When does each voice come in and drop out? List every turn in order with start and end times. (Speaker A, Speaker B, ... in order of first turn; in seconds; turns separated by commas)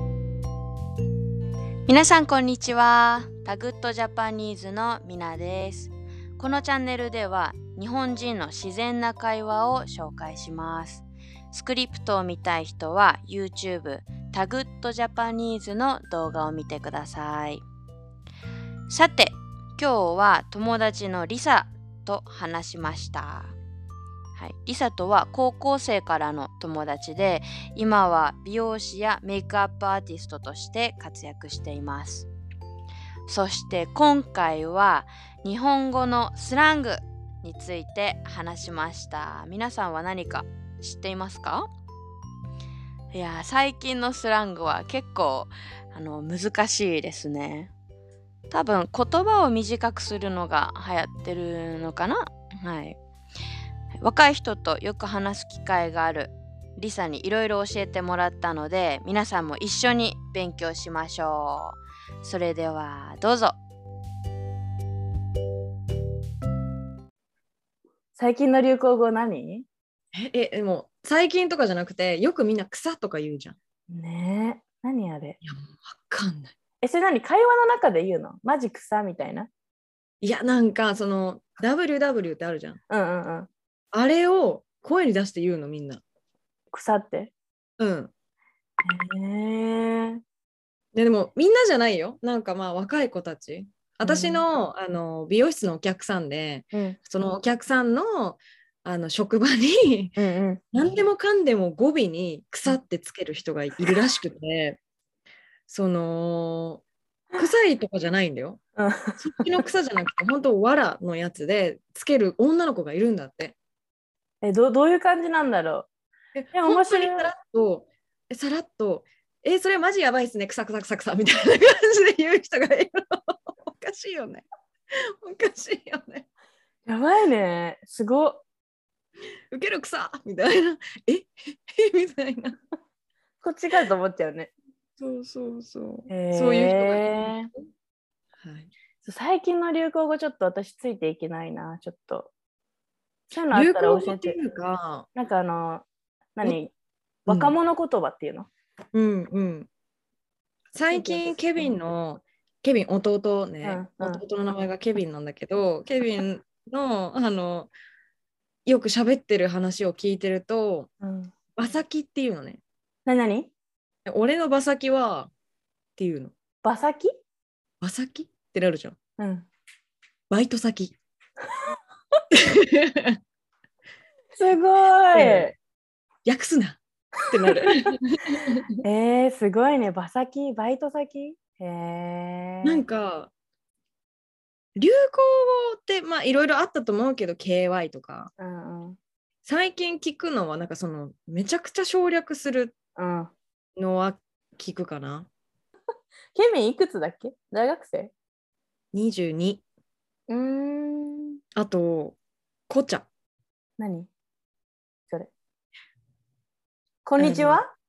Speaker A: 1.9-17.6, Speaker A: 18.9-23.5, Speaker A: 24.4-32.3, Speaker A: 33.3-41.7, Speaker A: 43.1-47.7, Speaker A: 48.5-53.0, Speaker A: 54.0-63.6, Speaker B: 68.1-69.7, Speaker C: 70.1-73.6, Speaker B: 73.9-75.4, Speaker C: 75.4-76.5, Speaker B: 76.8-79.5, Speaker C: 80.2-82.8, Speaker B: 82.9-83.5, Speaker C: 83.9-86.0, Speaker B: 86.7-87.3, Speaker C: 87.8-88.1, Speaker B: 88.8-90.2, Speaker C: 90.9-100.2, Speaker B: 94.0-94.4, Speaker B: 96.7-97.0, Speaker B: 100.2-100.6, Speaker C: 100.7-104.8, Speaker C: 105.7-106.8, Speaker C: 107.3-108.6, Speaker B: 108.8-109.6, Speaker C: 109.2-113.5, Speaker B: 114.4-115.9, Speaker C: 116.3-124.4, Speaker B: 116.5-117.3, Speaker C: 125.0-126.3, Speaker B: 126.8-128.4, Speaker C: 129.5-132.6, Speaker B: 133.4-134.5, Speaker C: 135.0-137.6, Speaker B: 136.1-137.5, Speaker C: 138.4-138.7, Speaker B: 139.0-142.3, Speaker B: 143.3-144.4, Speaker C: 143.5-145.1, Speaker B: 145.1-145.8, Speaker B: 146.3-146.7, Speaker B: 147.2-148.5, Speaker C: 147.3-147.5, Speaker C: 148.9-149.7, Speaker C: 150.7-157.7, Speaker B: 150.9-151.7, Speaker B: 153.6-154.2, Speaker C: 158.7-160.9, Speaker B: 161.0-161.3, Speaker C: 161.6-162.6, Speaker B: 163.1-163.5, Speaker C: 164.1-165.3, Speaker C: 166.0-166.3, Speaker B: 166.6-167.1, Speaker C: 167.8-168.9, Speaker B: 169.2-169.5, Speaker C: 170.3-170.9, Speaker C: 172.3-173.2, Speaker B: 174.3-175.5, Speaker C: 175.1-175.5, Speaker C: 176.2-178.7, Speaker B: 178.8-182.8, Speaker C: 182.6-183.3, Speaker C: 184.8-188.3, Speaker B: 188.4-189.0, Speaker C: 189.4-192.7, Speaker B: 192.9-193.3, Speaker C: 193.8-195.3, Speaker B: 196.3-198.1, Speaker C: 198.9-199.6, Speaker B: 200.3-201.4, Speaker C: 201.6-202.2, Speaker C: 202.7-203.1, Speaker B: 203.8-204.1, Speaker B: 207.0-207.7, Speaker C: 207.2-207.6